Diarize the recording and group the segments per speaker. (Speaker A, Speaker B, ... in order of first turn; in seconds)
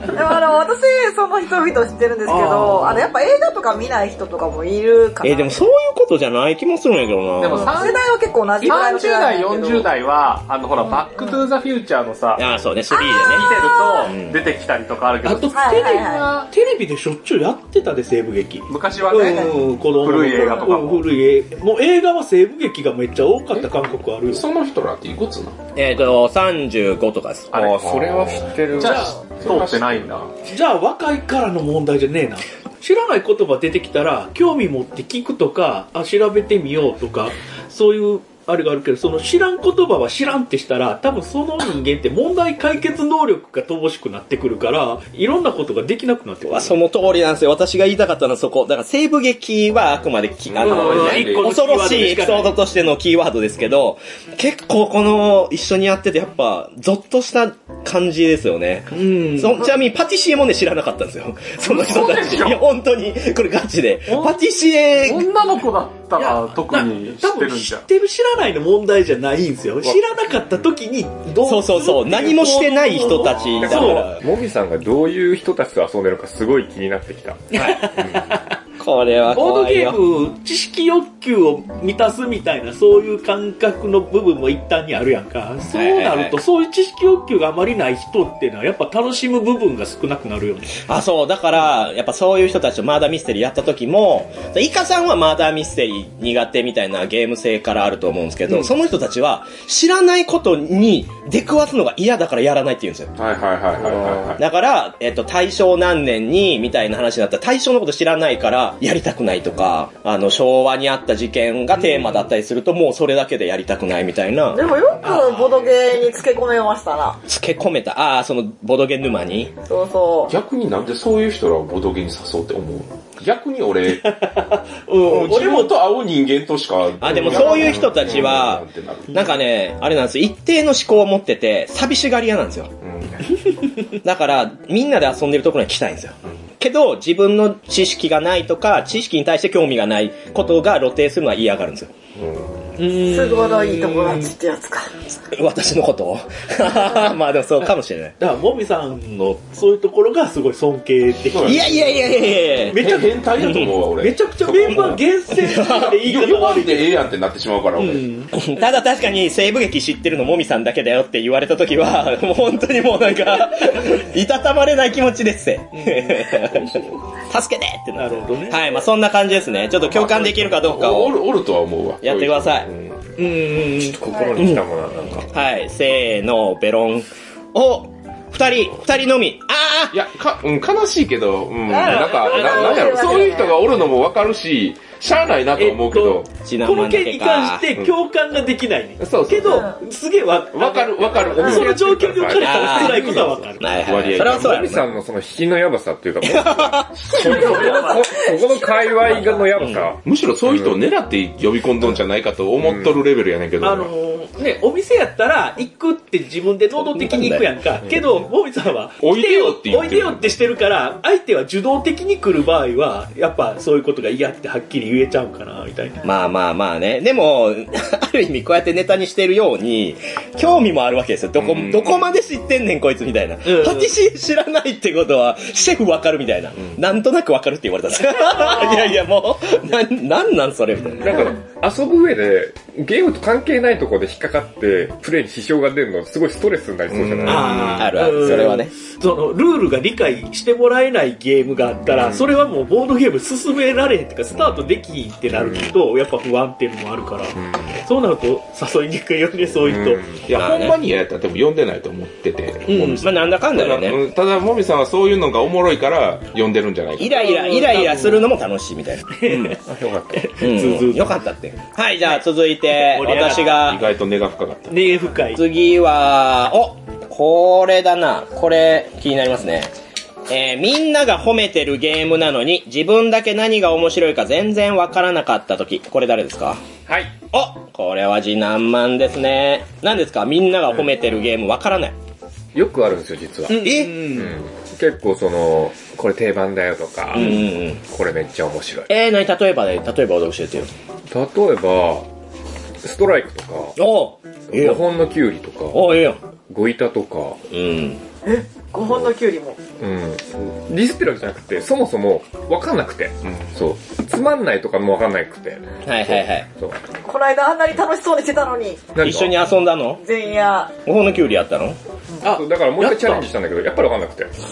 Speaker A: 0.1-5.5, 7.5-9.9, 12.9-14.1, 15.5-16.3, 19.2-19.5, 114.5-117.2, 119.7-120.3, 142.9-145.0, 181.7-183.6, 189.4-189.8, 197.1-199.4, 298.2-299.6, 307.0-308.9, 310.0-310.8
Speaker B: 2.2-3.1, 15.2-24.4, 28.8-29.2, 30.4-46.7, 50.6-52.5, 58.9-59.7, 66.2-74.2, 77.5-78.6, 79.3-90.8, 111.9-112.1, 115.0-115.9, 123.9-125.8, 127.1-127.7, 142.8-144.3, 148.2-152.1, 152.6-157.0, 157.8-158.3, 165.7-166.7, 167.9-168.6, 173.2-174.0, 181.8-183.3, 185.6-193.7, 203.6-216.0, 223.4-223.9, 228.3-228.9, 237.2-250.0, 252.7-253.1, 257.1-258.2, 259.1-261.2, 262.6-263.7, 264.7-265.4, 283.5-284.4, 287.1-287.4, 312.2-313.2
Speaker C: 5.2-7.8, 12.4-14.4, 25.7-27.7, 46.4-65.3, 71.4-74.2, 77.5-77.9, 78.8-80.0, 85.7-86.4, 90.8-103.1, 104.4-114.7, 117.3-119.5, 127.0-132.7, 134.0-141.9, 145.3-148.2, 151.4-152.8, 153.4-153.7, 154.7-156.0, 158.3-166.8, 167.3-171.2, 172.0-172.7, 174.3-174.6, 175.3-179.9, 186.4-187.6, 192.4-194.9, 196.2-197.0, 206.7-207.4, 216.0-231.2, 237.5-238.7, 250.3-250.8, 253.0-254.0, 257.0-259.6, 260.4-263.9, 265.3-269.7, 270.3-276.6, 277.3-281.9, 283.6-284.0, 287.1-287.8, 288.9-290.7, 293.8-294.8, 295.7-296.2, 297.5-298.0, 305.8-306.5, 309.0-310.0, 310.9-311.8
Speaker D: 7.4-8.0, 8.6-12.4, 13.1-16.5, 18.7-21.1, 27.5-28.1, 28.7-30.3, 61.6-62.6, 64.1-64.4, 65.0-67.8, 197.2-198.0
Speaker E: 24.3-25.6, 27.8-28.4, 29.3-30.3, 50.5-51.6, 103.2-104.4, 120.3-124.1, 125.0-129.3, 132.8-133.3, 142.2-142.6, 151.3-158.1, 169.8-173.0, 179.9-186.3, 189.0-189.7, 190.5-192.2, 193.8-194.8, 200.0-203.9, 209.0-210.4, 221.4-222.1, 236.9-237.8, 250.3-257.2, 263.0-264.9
Speaker F: 27.5-29.3, 73.6-77.5, 173.6-175.3, 191.4-200.8, 202.6-203.0, 231.0-238.2, 241.9-242.3, 244.4-244.7, 245.3-245.7, 247.4-247.8, 249.6-250.3, 259.6-260.3, 276.9-277.2, 282.5-288.9, 291.1-292.1, 292.8-293.8, 294.5-295.9, 296.5-297.4, 298.8-299.1, 299.8-306.8, 308.9-309.4, 312.2-314.3